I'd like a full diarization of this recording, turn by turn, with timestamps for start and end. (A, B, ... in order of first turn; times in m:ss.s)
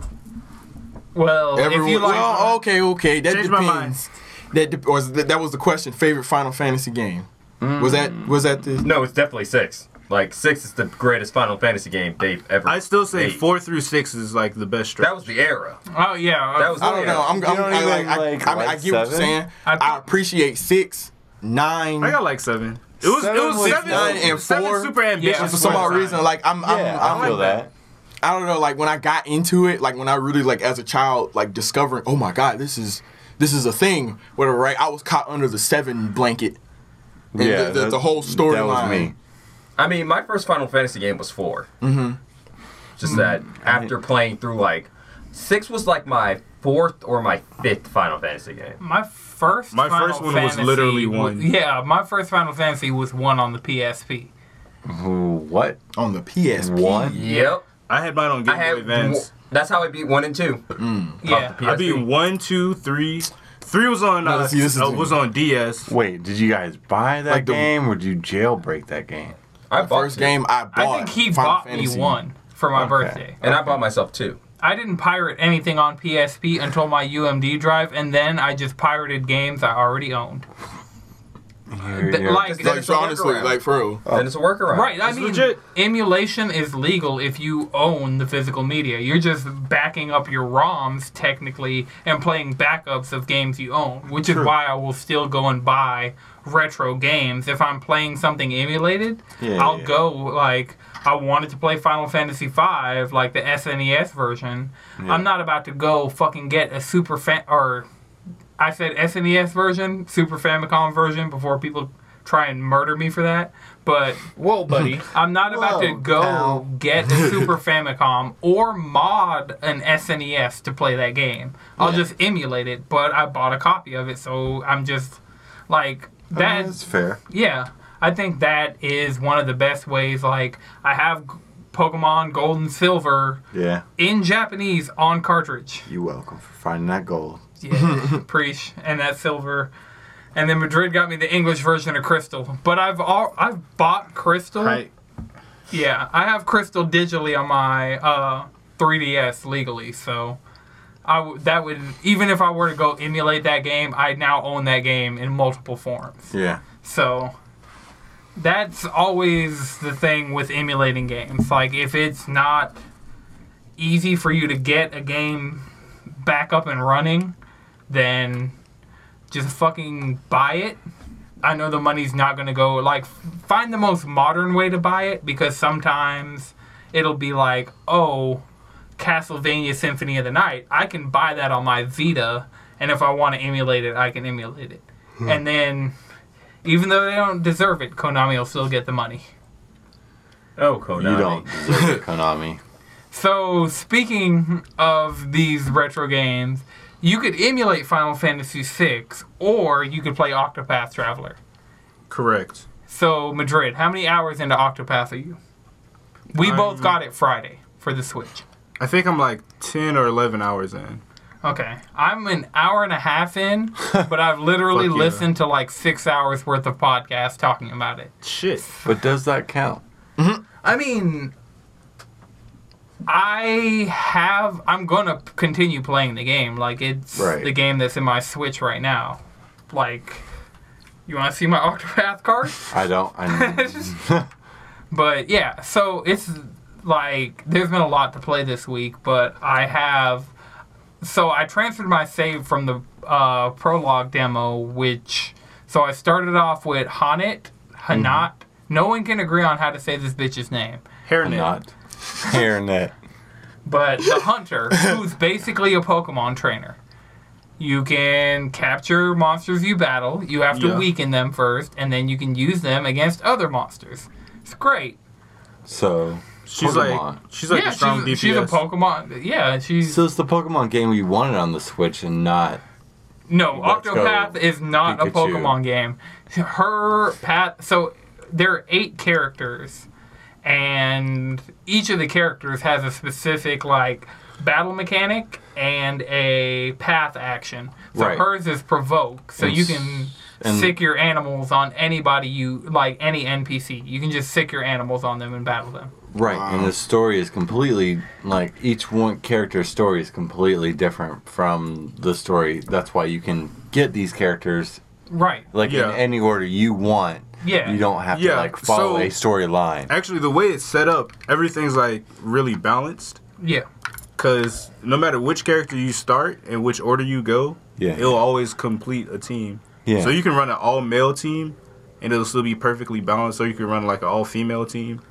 0:01.1-0:02.6 A
0:01.5-0:08.9 B
0:03.2-0:04.0 C
0:07.6-0:08.4 D
0:08.8-0:13.4 E
0:12.6-0:15.3 C
0:15.0-0:15.8 E
0:15.9-0:17.2 A
0:16.6-0:17.4 E
0:16.8-0:22.2 B
0:17.2-0:19.4 D
0:19.6-0:20.1 A
0:22.0-0:26.3 C
0:23.0-0:24.4 D
0:23.5-0:27.6 B
0:25.2-0:26.1 A
0:26.6-0:27.7 D
0:27.0-0:27.6 C
0:28.2-0:36.6 B
0:37.3-0:39.1 D
0:37.4-0:39.1 B
0:39.8-0:41.7 E
0:41.8-0:42.2 B
0:43.0-0:48.8 E
0:43.1-0:43.9 D
0:48.8-0:54.3 A
0:49.7-0:51.5 C
0:54.8-0:55.8 D
0:56.0-0:57.3 B
0:56.6-0:57.2 D
0:57.1-0:57.6 E
0:57.9-0:59.3 C
0:58.4-1:00.6 E
1:00.8-1:01.2 B
1:01.2-1:01.6 A
1:01.2-1:02.0 E
1:01.6-1:05.9 C
1:04.2-1:05.2 B
1:05.9-1:09.4 D
1:07.3-1:07.7 B
1:09.7-1:10.4 E
1:09.7-1:12.2 B
1:10.7-1:13.4 A
1:12.7-1:13.8 D
1:13.4-1:14.4 E
1:14.6-1:20.4 A
1:21.7-1:22.6 D
1:21.9-1:22.8 A
1:22.4-1:25.0 E
1:22.6-1:24.1 B
1:24.7-1:47.9 A
1:25.0-1:25.6 C
1:39.4-1:40.0 D
1:45.0-1:45.3 D
1:48.6-2:13.4 A
1:55.3-1:56.7 D
2:01.8-2:02.1 D
2:06.3-2:07.2 D
2:13.5-2:13.8 D
2:14.0-2:15.9 A
2:15.9-2:17.4 D
2:17.6-2:19.7 A
2:20.3-2:24.8 A
2:24.6-2:24.9 C
2:25.7-2:30.4 A
2:31.0-2:37.3 A
2:36.3-2:36.6 D
2:38.4-2:42.8 A
2:43.8-2:45.6 A
2:46.2-2:47.3 A
2:47.9-2:48.5 A
2:49.3-2:50.8 A
2:51.4-2:58.4 A
2:59.0-3:05.9 A
3:06.6-3:09.2 A
3:10.6-3:11.7 E
3:11.0-3:12.6 D
3:13.1-3:21.4 A
3:22.1-3:22.6 C
3:22.9-3:25.4 A
3:26.3-3:28.4 A
3:26.4-3:27.0 C
3:28.8-3:31.0 C
3:31.4-3:38.1 A
3:34.7-3:35.2 C
3:38.2-3:38.6 C
3:38.8-3:39.8 D
3:40.2-3:40.4 B
3:40.6-3:41.3 A
3:43.0-3:49.2 A
3:47.1-3:47.5 D
3:49.7-3:50.2 A
3:51.1-3:52.7 A
3:52.7-3:54.3 D
3:53.3-3:54.0 A
3:54.9-4:00.3 A
4:01.0-4:10.8 A
4:07.9-4:08.2 D
4:11.0-4:11.5 C
4:11.2-4:12.9 D
4:13.6-4:16.8 A
4:17.6-4:25.0 A
4:20.5-4:20.8 C
4:25.6-4:27.2 D
4:26.4-4:28.6 C
4:27.5-4:30.0 A
4:29.8-4:32.6 D
4:33.3-4:39.9 A
4:33.5-4:35.6 D
4:40.4-4:55.9 A
4:47.9-4:48.2 D
4:49.4-4:50.8 D
4:56.1-5:04.8 D
4:56.2-4:56.7 B
5:05.1-5:05.4 A
5:05.5-5:09.9 D
5:05.6-5:06.0 C
5:07.4-5:07.8 A
5:08.1-5:09.2 C
5:09.9-5:13.2 C
5:13.4-5:13.7 A
5:14.2-5:25.0 C
5:17.8-5:18.2 D
5:19.8-5:20.2 D